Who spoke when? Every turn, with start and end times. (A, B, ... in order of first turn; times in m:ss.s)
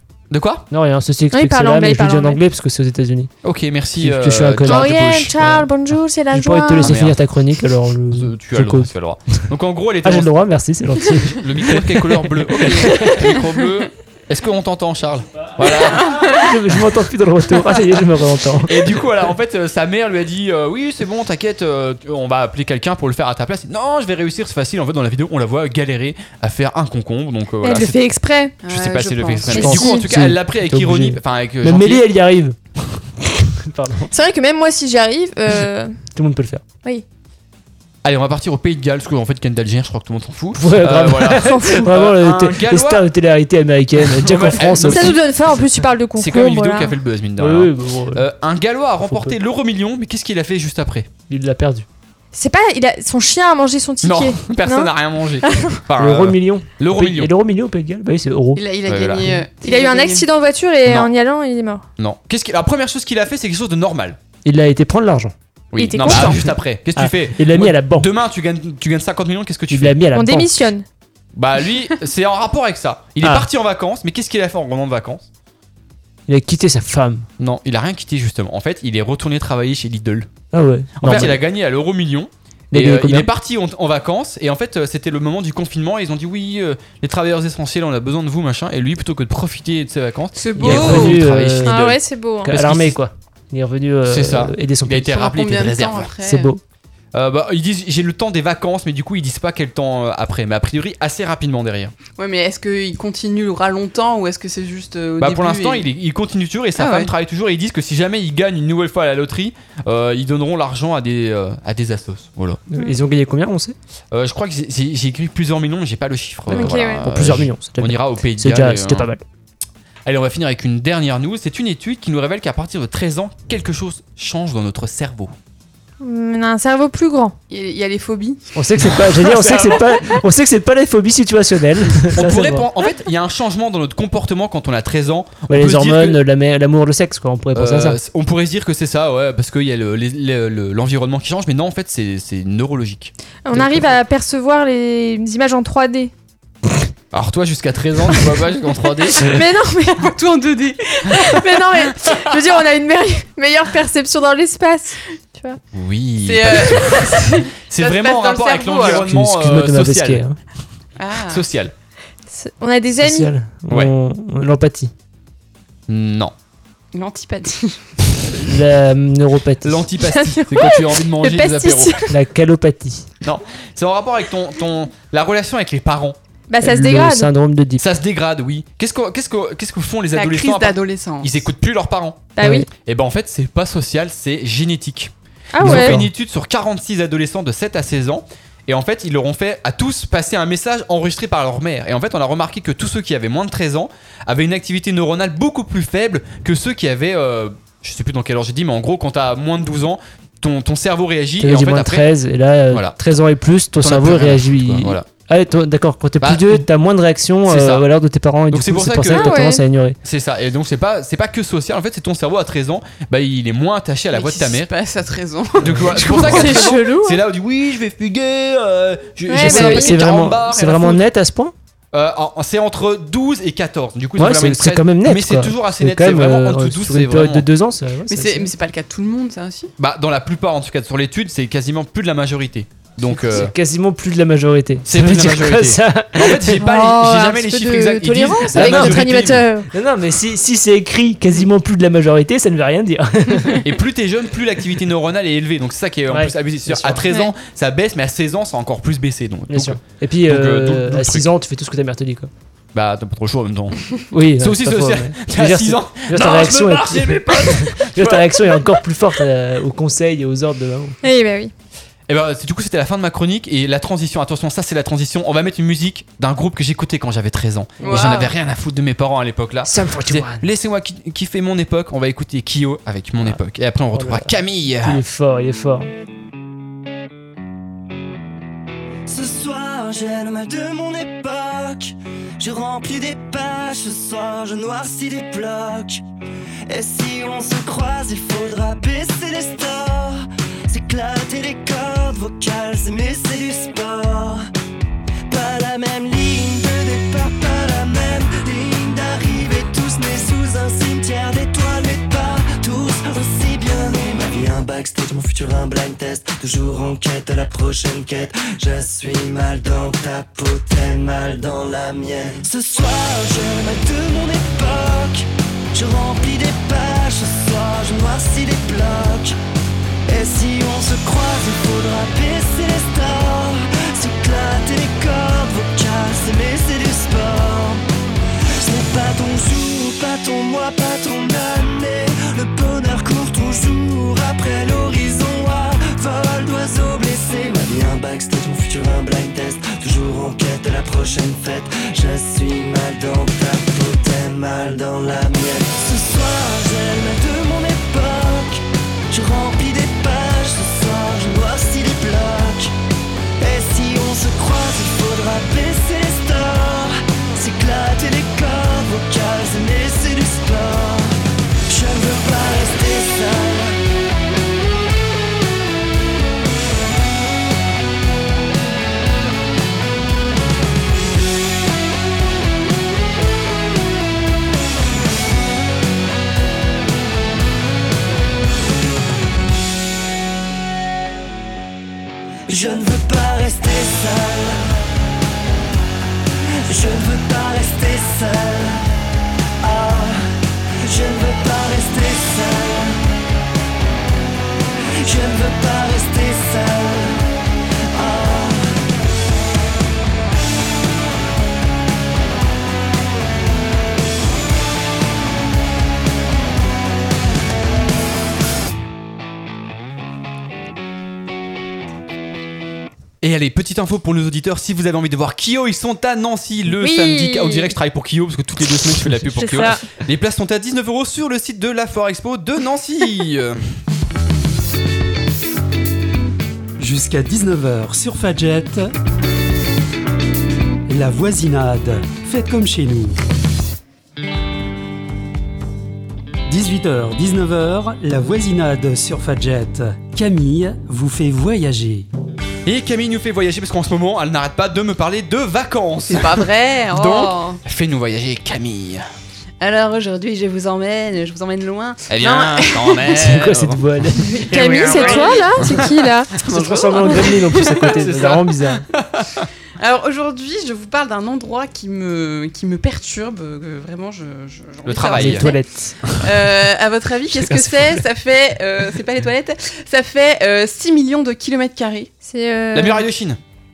0:00.3-0:00.7 A
0:00.7-0:03.3 B
0:01.3-0:02.4 C
0:03.4-0:05.4 A
0:04.0-0:05.7 B
0:04.6-0:07.0 C
0:06.3-0:09.4 B
0:06.8-0:07.2 A
0:08.1-0:10.4 A
0:10.0-0:13.3 B
0:11.3-0:16.3 A
0:15.6-0:19.0 B
0:15.7-0:16.5 D
0:18.7-0:28.0 A
0:27.6-0:28.6 C
0:28.6-0:29.7 D
0:28.7-0:32.1 A
0:29.5-0:30.0 C
0:29.6-0:32.6 B
0:33.4-0:34.1 B
0:34.1-0:36.0 C
0:36.1-0:36.6 B
0:38.0-0:43.1 A
0:40.6-0:45.2 B
0:41.4-0:41.9 C
0:44.1-0:45.2 A
0:44.8-0:47.0 C
0:46.2-0:51.1 A
0:47.4-0:48.3 B
0:49.0-0:49.4 B
0:51.3-0:51.9 B
0:52.3-0:54.9 C
0:54.0-0:57.3 A
0:55.4-0:55.8 C
0:56.0-0:58.6 B
0:58.6-1:00.3 D
0:58.9-0:59.3 A
0:59.6-1:01.8 C
1:02.0-1:04.2 A
1:04.4-1:05.3 B
1:05.7-1:10.0 A
1:05.8-1:06.4 C
1:06.0-1:08.1 B
1:09.7-1:10.7 B
1:10.1-1:10.8 C
1:11.4-1:15.2 A
1:13.2-1:13.5 B
1:16.3-1:17.3 B
1:17.4-1:20.3 A
1:20.5-1:21.4 B
1:21.0-1:33.0 A
1:22.7-1:23.3 B
1:30.4-1:31.2 D
1:30.6-1:31.8 B
1:31.7-1:32.5 C
1:32.4-1:35.3 B
1:34.1-1:36.1 A
1:35.2-1:36.5 D
1:36.2-1:36.6 B
1:37.1-1:42.0 A
1:42.1-1:45.9 D
1:45.2-1:52.6 A
1:46.8-1:47.1 D
1:52.7-1:53.8 B
1:54.1-1:59.1 A
1:56.5-1:59.2 B
1:56.5-1:57.0 C
2:00.1-2:05.3 A
2:06.0-2:07.4 C
2:07.5-2:08.4 D
2:08.6-2:12.7 B
2:09.2-2:09.8 A
2:12.1-2:16.2 A
2:15.5-2:18.0 B
2:17.5-2:23.1 A
2:23.4-2:26.1 C
2:23.5-2:23.9 B
2:27.1-2:29.3 A
2:29.2-2:30.1 C
2:30.0-2:31.4 D
2:31.1-2:35.6 C
2:35.7-2:40.2 A
2:36.2-2:39.1 D
2:38.9-2:40.4 B
2:41.0-2:41.4 D
2:41.3-2:41.7 A
2:42.3-2:43.3 C
2:43.0-2:44.9 B
2:45.9-2:46.3 A
2:46.9-2:47.8 D
2:48.3-2:49.9 B
2:49.6-2:52.0 A
2:50.0-2:52.1 C
2:52.1-2:53.1 B
2:53.2-2:56.2 A
2:56.5-2:57.3 C
2:56.6-2:57.8 B
2:57.8-3:22.1 A
3:00.1-3:01.4 D
3:02.4-3:02.7 C
3:02.4-3:02.7 B
3:05.5-3:06.0 C
3:05.6-3:06.1 B
3:21.4-3:30.0 B
3:22.7-3:23.0 A
3:23.8-3:25.1 A
3:26.2-3:26.7 A
3:27.4-3:27.9 A
3:28.5-3:29.4 A
3:29.1-3:29.6 C
3:30.0-3:34.7 A
3:34.1-3:36.8 D
3:35.6-3:41.0 A
3:36.0-3:37.2 C
3:39.3-3:40.0 C
3:39.4-3:41.5 B
3:41.9-3:47.5 A
3:44.2-3:48.5 B
3:48.1-3:49.7 D
3:49.8-3:53.5 A
3:53.1-3:56.6 B
3:54.9-3:59.4 A
3:56.6-3:59.7 C
3:58.5-3:59.1 B
3:59.7-4:03.7 B
4:03.6-4:11.3 A
4:06.1-4:07.1 B
4:09.5-4:12.3 B
4:12.7-4:13.9 A
4:14.1-4:21.0 B
4:14.4-4:18.6 A
4:21.0-4:21.5 C
4:22.1-4:35.0 A
4:27.8-4:28.3 D
4:27.9-4:28.2 B
4:29.6-4:30.4 B
4:33.9-4:35.9 B
4:39.1-4:46.0 E
4:46.7-4:54.4 E
4:55.3-5:19.4 E
5:20.1-5:27.8 E
5:28.6-5:52.7 E
5:53.4-6:01.2 E
6:01.7-6:03.8 E
6:22.5-6:24.7 E
6:26.7-6:28.9 E
6:29.6-6:33.0 E
6:35.0-6:37.2 E
6:37.9-6:38.8 E
6:53.2-7:03.7 A
6:56.7-6:57.7 C
6:59.4-6:59.8 C
7:06.8-7:08.9 F
7:10.9-7:13.2 F
7:16.5-7:22.1 F
7:22.7-7:29.0 A
7:26.1-7:27.6 D
7:29.6-7:33.3 D
7:32.1-7:33.8 A
7:33.1-7:35.8 B
7:34.3-7:35.6 D
7:34.5-7:36.4 C
7:36.4-7:38.0 D
7:36.4-7:38.8 B
7:37.8-7:39.4 A
7:39.8-7:45.6 D
7:44.8-7:45.5 A
7:45.1-7:46.0 B
7:46.2-7:52.1 D
7:47.3-7:48.0 B
7:52.2-7:53.1 C
7:52.7-7:53.4 A